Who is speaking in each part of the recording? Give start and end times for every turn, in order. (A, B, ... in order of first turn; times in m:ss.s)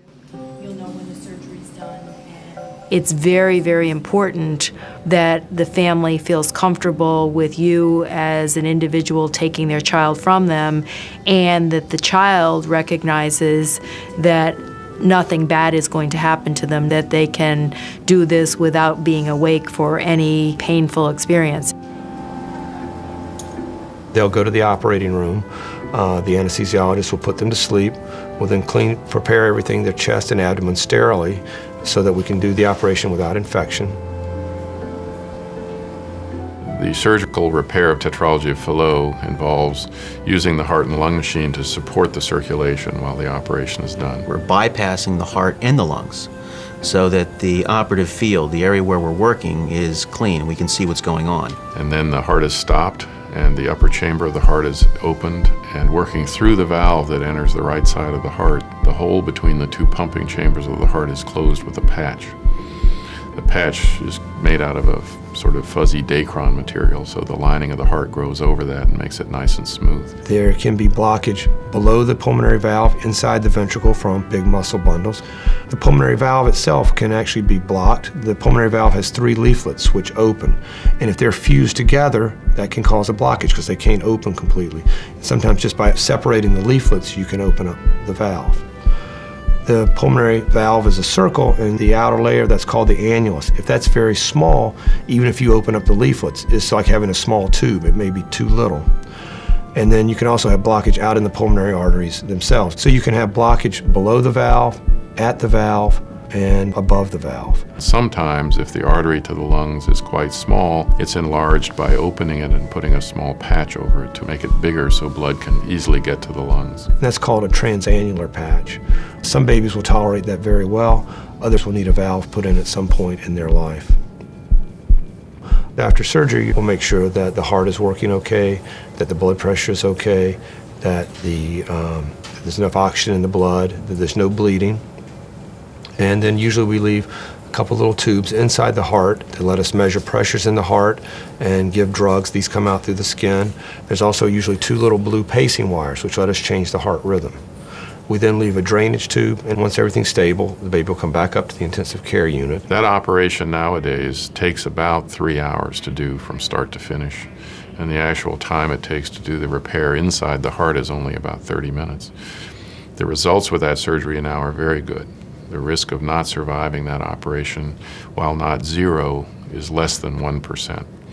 0:00.6-0:21.7 A
0:24.1-0:34.0 B
0:36.6-0:44.3 C
0:44.3-0:46.3 D
0:46.8-0:51.6 D
0:51.7-1:02.4 C
1:03.4-1:10.2 C
1:10.2-1:28.6 B
1:29.6-1:38.9 B
1:39.8-1:47.6 B
1:47.8-1:56.9 C
1:57.0-2:04.0 B
2:05.8-2:14.8 B
2:16.0-2:27.4 B
2:28.1-2:32.6 B
2:32.7-2:42.1 C
2:43.0-2:50.9 C